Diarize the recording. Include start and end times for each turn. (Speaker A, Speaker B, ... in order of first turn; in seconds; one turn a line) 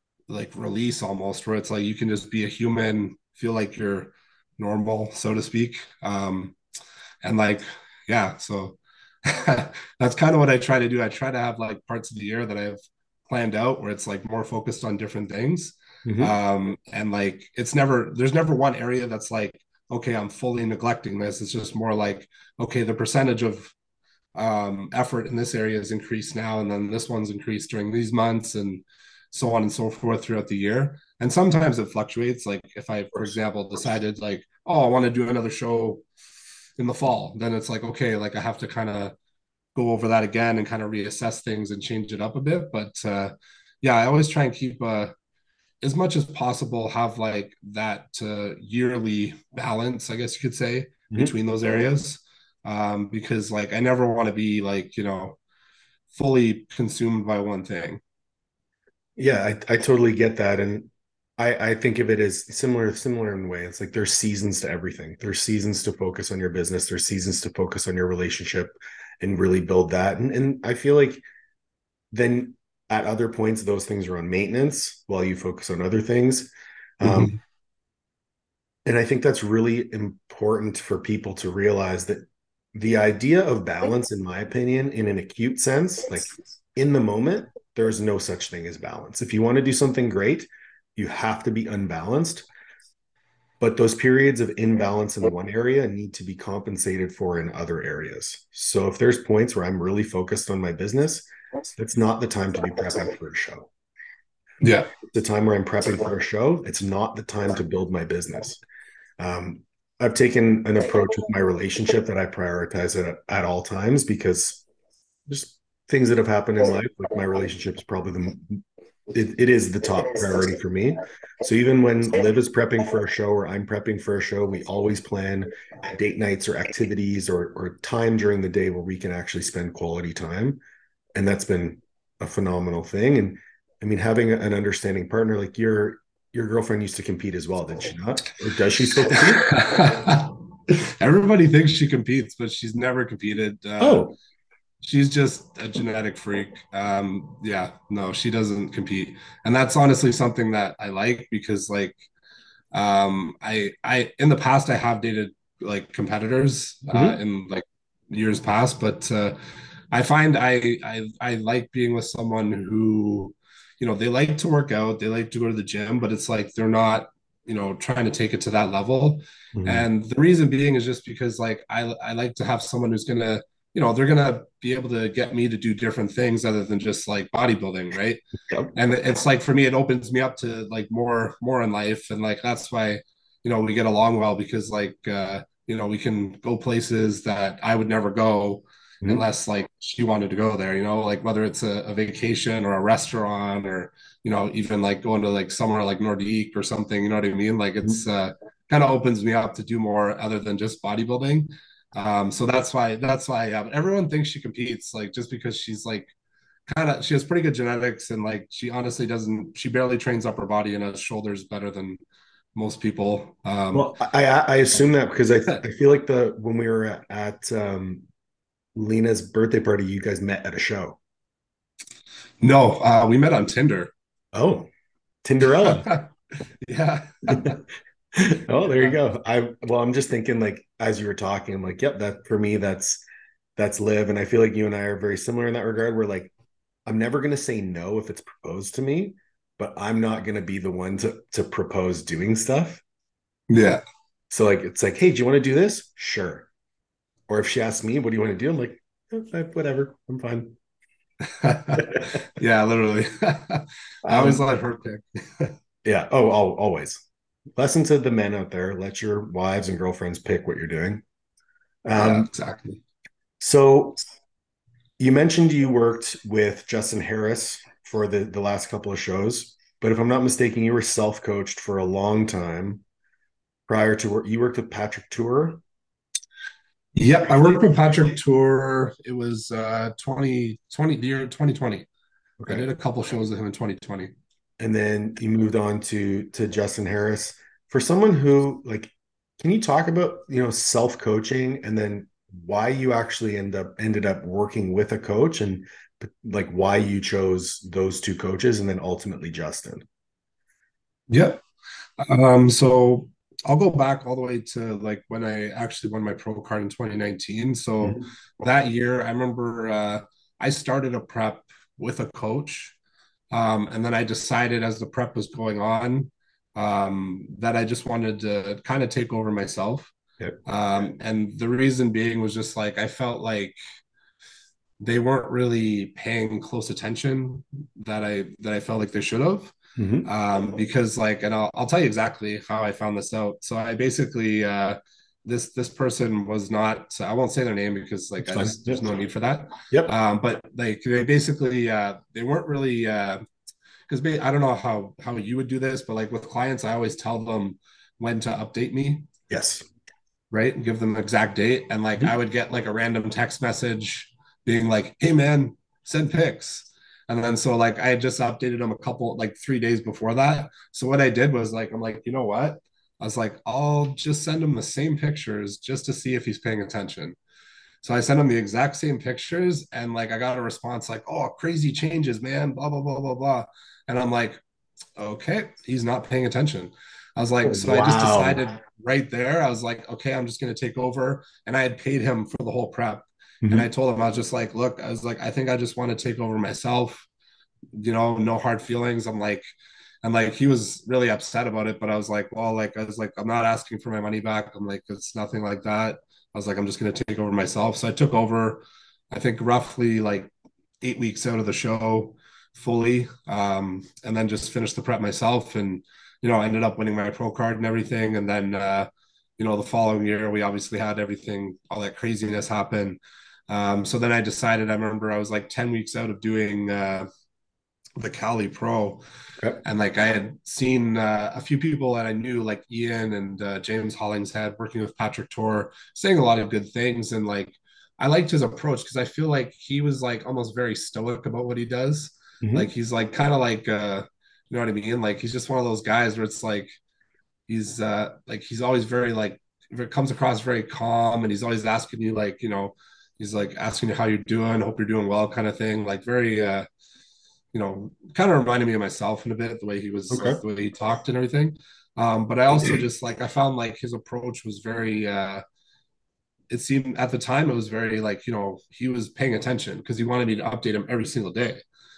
Speaker A: 0.3-6.6
Speaker A: 7.2-23.7
Speaker B: 16.0-16.3
Speaker A: 24.3-36.0
Speaker A: 36.8-39.1
Speaker A: 39.7-45.1
Speaker A: 45.8-55.4
Speaker A: 56.1-58.0
Speaker B: 59.2-71.2
Speaker B: 72.1-77.3
Speaker A: 77.0-77.4
Speaker B: 78.8-92.5
Speaker B: 93.6-103.7
Speaker A: 104.6-104.9
Speaker B: 105.1-108.6
Speaker B: 109.2-114.6
Speaker B: 115.3-130.6
Speaker B: 131.2-139.5
Speaker A: 139.1-144.1
Speaker B: 143.8-144.1
Speaker A: 144.8-152.0
Speaker A: 152.7-159.4
Speaker B: 156.9-157.2
Speaker A: 159.9-178.2
Speaker B: 169.5-169.8
Speaker A: 178.7-206.1
Speaker A: 206.7-212.0
Speaker A: 212.5-213.9
Speaker B: 213.7-218.1
Speaker B: 218.7-221.0
Speaker A: 222.4-223.9
Speaker B: 224.3-224.7
Speaker B: 225.2-225.9
Speaker A: 225.6-226.1
Speaker A: 226.6-227.6
Speaker B: 227.3-227.6
Speaker B: 228.1-233.0
Speaker B: 233.6-236.3
Speaker B: 236.8-242.8
Speaker A: 243.5-243.8
Speaker B: 244.3-246.5
Speaker B: 247.3-250.5
Speaker A: 251.2-255.5
Speaker B: 251.8-252.1
Speaker B: 254.1-254.4
Speaker B: 255.8-257.0
Speaker B: 257.6-261.0
Speaker B: 261.8-262.3
Speaker A: 262.0-262.8
Speaker B: 263.4-264.0
Speaker B: 265.0-272.8
Speaker B: 273.7-275.6
Speaker A: 276.9-281.9
Speaker B: 282.4-282.6
Speaker A: 282.5-284.1
Speaker B: 284.6-299.8
Speaker A: 301.1-301.4
Speaker A: 302.0-312.8
Speaker B: 307.8-308.1
Speaker A: 313.3-319.9
Speaker A: 320.4-323.6
Speaker A: 324.8-343.2
Speaker B: 329.8-330.1
Speaker B: 338.2-338.8
Speaker A: 343.9-349.1
Speaker B: 349.3-349.6
Speaker A: 350.3-367.2
Speaker A: 367.8-374.4
Speaker A: 375.0-387.1
Speaker B: 377.4-378.4
Speaker A: 387.7-389.4
Speaker A: 390.0-417.1
Speaker A: 418.0-419.0
Speaker A: 419.6-436.8
Speaker B: 432.4-432.7
Speaker A: 437.5-446.6
Speaker A: 447.5-455.4
Speaker B: 450.1-450.4
Speaker A: 456.5-461.6